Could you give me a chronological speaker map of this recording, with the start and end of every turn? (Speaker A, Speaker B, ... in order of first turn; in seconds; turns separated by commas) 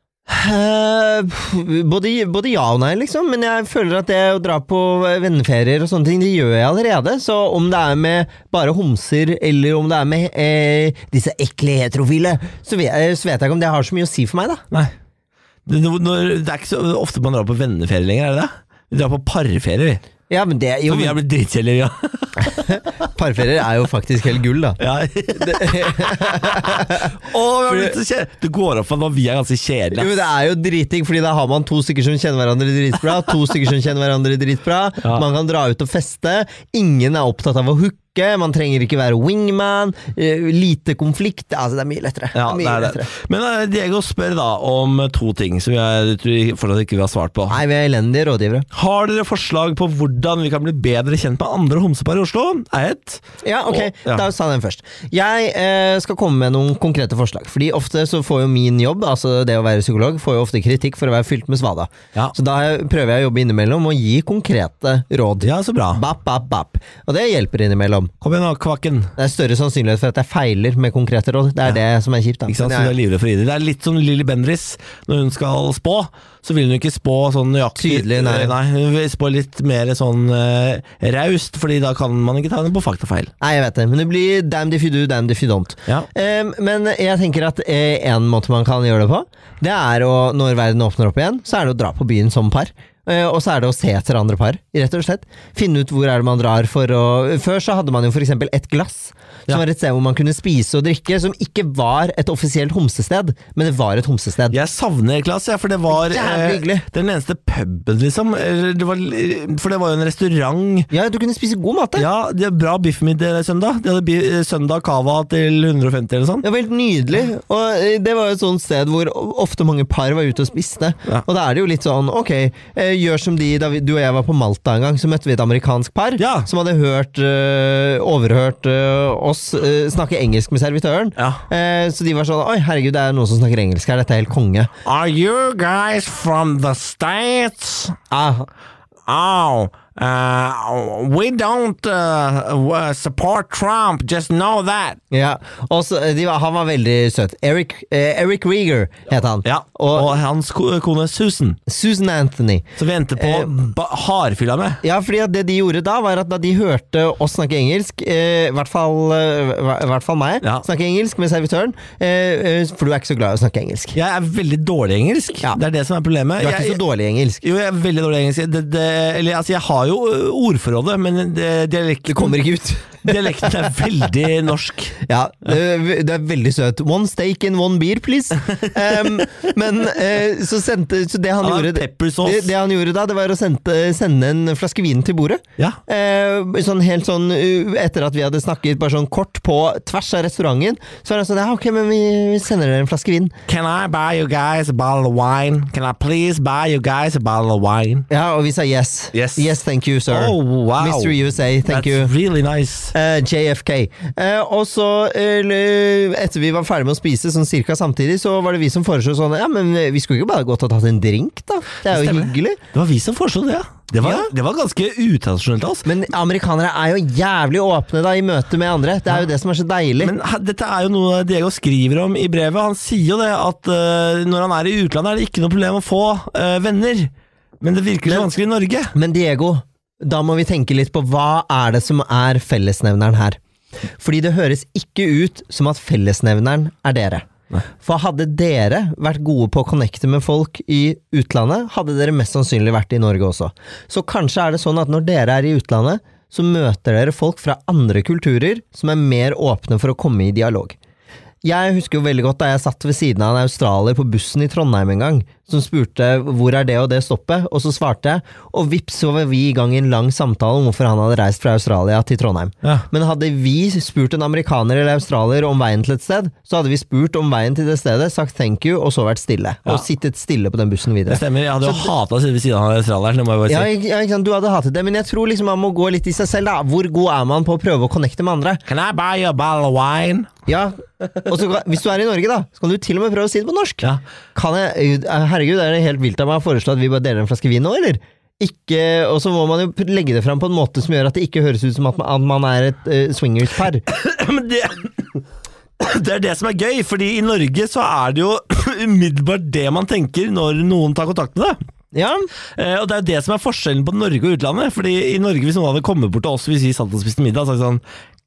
Speaker A: 0.3-14.6, Speaker B: 15.7-20.0, Speaker A: 20.3-21.2, Speaker B: 20.9-22.8, Speaker A: 22.4-24.8, Speaker B: 24.8-30.1, Speaker A: 25.4-27.9, Speaker A: 29.9-43.1, Speaker B: 42.3-47.6, Speaker A: 47.5-48.7, Speaker B: 48.7-54.2, Speaker A: 53.4-68.1, Speaker B: 65.4-66.0, Speaker B: 68.2-69.1, Speaker A: 69.2-72.9, Speaker B: 72.5-83.3, Speaker A: 77.8-78.5, Speaker A: 83.4-104.6, Speaker B: 104.5-110.9, Speaker A: 105.9-106.8, Speaker A: 110.9-112.1, Speaker B: 112.0-116.4, Speaker A: 116.4-134.7, Speaker B: 126.2-126.5, Speaker B: 131.2-131.4, Speaker B: 134.8-138.0, Speaker A: 138.1-138.5, Speaker B: 139.1-145.0, Speaker A: 145.1-150.1, Speaker B: 149.4-151.6, Speaker A: 151.7-153.5, Speaker B: 152.8-154.8, Speaker A: 154.8-163.9, Speaker B: 163.9-166.8, Speaker A: 166.4-167.4, Speaker B: 167.4-172.4, Speaker A: 172.1-173.9, Speaker B: 173.0-175.0, Speaker A: 175.0-193.3, Speaker B: 178.5-179.2, Speaker B: 181.4-182.5, Speaker B: 193.5-198.1, Speaker A: 198.1-202.1, Speaker B: 199.1-199.5, Speaker B: 200.1-201.2, Speaker B: 201.7-202.9, Speaker A: 202.9-212.6, Speaker B: 211.9-215.9, Speaker A: 214.0-214.3, Speaker A: 215.8-220.1, Speaker B: 220.0-228.9, Speaker A: 228.9-233.4, Speaker A: 234.0-237.2, Speaker A: 237.8-250.8, Speaker A: 251.4-271.9, Speaker B: 271.1-273.7, Speaker A: 273.5-278.6, Speaker B: 278.6-280.3, Speaker A: 280.4-293.8, Speaker B: 293.9-295.2, Speaker B: 295.8-301.6, Speaker A: 301.9-302.3, Speaker B: 302.6-307.8